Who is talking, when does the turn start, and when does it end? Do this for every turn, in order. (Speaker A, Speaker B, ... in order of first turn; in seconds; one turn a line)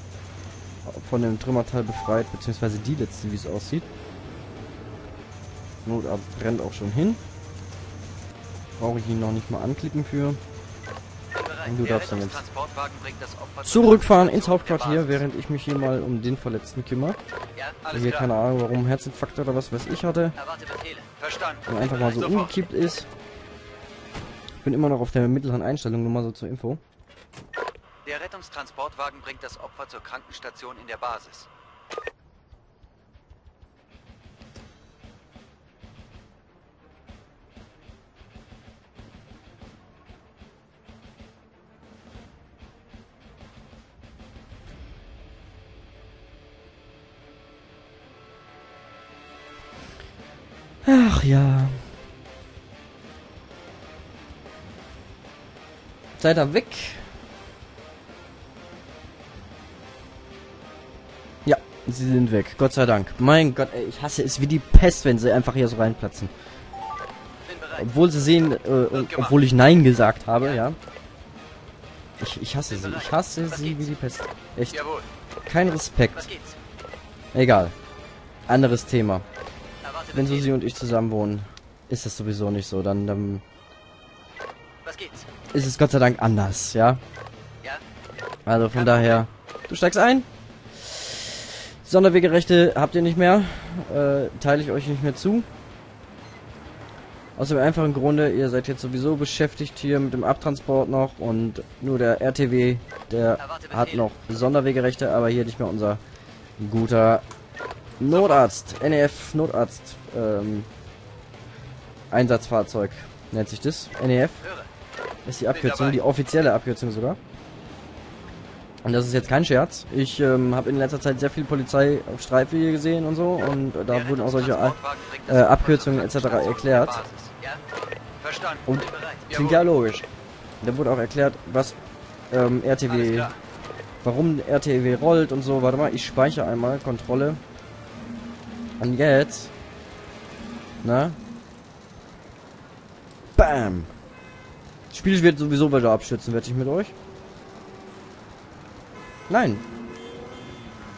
Speaker A: 0.8-3.9
Speaker A: 5.8-7.2
Speaker A: 8.8-10.4
Speaker A: 11.6-12.4
Speaker B: 11.7-15.2
Speaker A: 13.6-17.2
Speaker B: 17.8-18.3
Speaker A: 17.9-20.4
Speaker B: 21.1-22.5
Speaker A: 21.7-23.1
Speaker A: 24.6-26.8
Speaker B: 28.0-31.5
Speaker A: 50.8-51.8
Speaker A: 56.2-57.1
Speaker A: 61.5-66.3
Speaker A: 67.7-70.8
Speaker B: 68.9-69.3
Speaker A: 72.2-74.8
Speaker B: 74.7-75.0
Speaker A: 75.5-76.3
Speaker A: 77.3-77.7
Speaker A: 78.5-79.2
Speaker A: 80.1-83.4
Speaker A: 85.5-87.0
Speaker A: 88.5-95.5
Speaker A: 97.3-106.0
Speaker A: 106.6-107.2
Speaker A: 108.0-110.7
Speaker B: 108.1-108.5
Speaker A: 112.1-114.4
Speaker A: 115.2-117.2
Speaker B: 115.5-116.0
Speaker A: 118.8-127.0
Speaker B: 123.9-127.4
Speaker B: 128.2-128.8
Speaker A: 128.7-130.1
Speaker B: 129.3-129.6
Speaker A: 130.6-131.8
Speaker A: 132.3-133.3
Speaker B: 132.9-133.3
Speaker A: 134.0-137.4
Speaker A: 138.8-139.5
Speaker A: 140.8-141.2
Speaker A: 143.3-143.9
Speaker A: 144.9-146.9
Speaker A: 149.3-149.6